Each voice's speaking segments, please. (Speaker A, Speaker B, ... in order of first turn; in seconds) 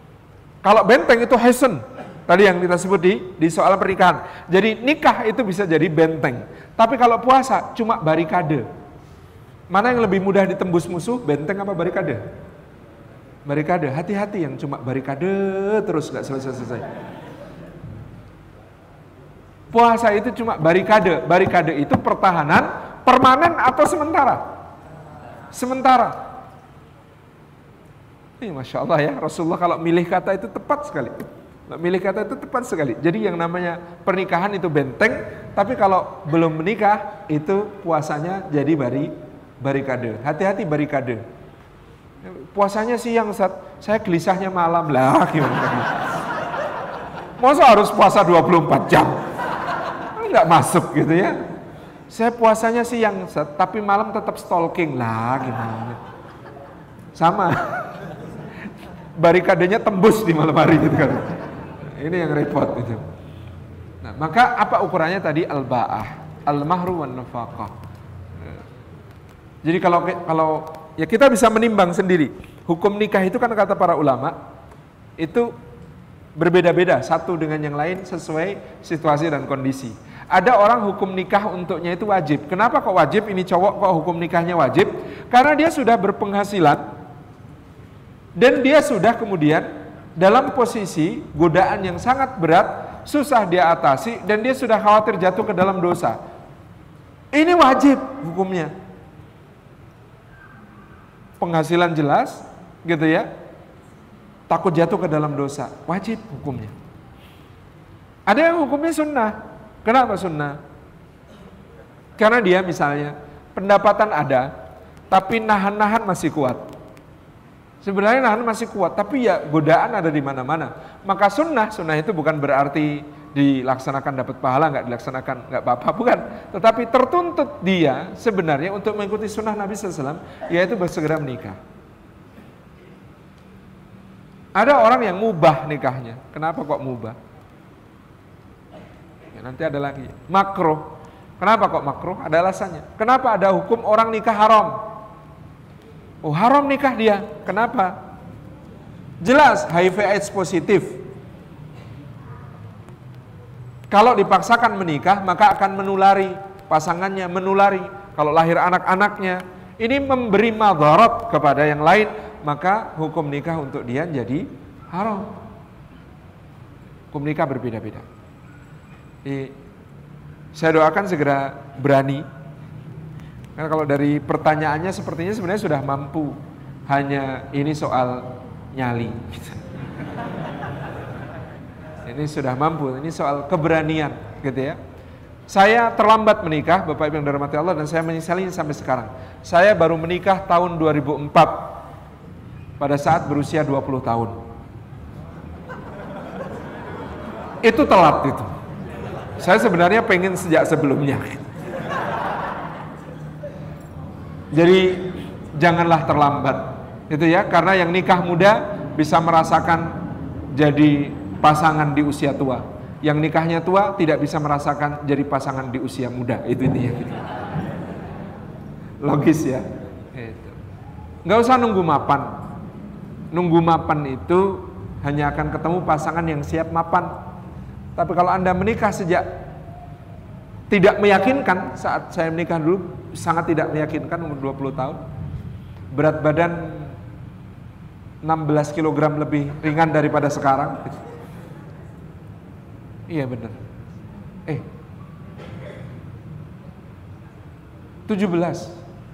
Speaker A: 0.6-8.7, 9.7-12.2, 13.4-16.9, 19.7-24.4, 25.5-26.2, 28.4-41.2, 42.2-46.0, 47.4-49.2, 50.1-51.4, 52.1-56.0, 57.1-57.8, 59.1-63.0, 64.0-67.7, 69.6-74.3, 75.2-75.5, 76.3-86.8, 88.3-96.2, 97.3-98.7, 101.4-103.3, 104.5-106.7, 108.3-110.6, 112.2-114.5, 115.1-116.6, 117.8-131.6, 134.5-137.2, 139.3-144.8, 146.2-148.0, 149.2-151.0, 153.9-165.4, 167.1-168.1, 169.2-169.6, 170.5-172.3, 173.6-179.6, 182.0-184.8, 185.5-191.8, 192.8-194.3, 197.6-198.5, 199.4-201.4, 204.5-210.0, 210.5-217.3, 219.0-220.6, 221.2-222.4, 223.3-227.2, 227.9-229.3, 230.7-235.0, 235.9-237.0, 238.2-241.1, 243.1-243.6, 248.1-248.8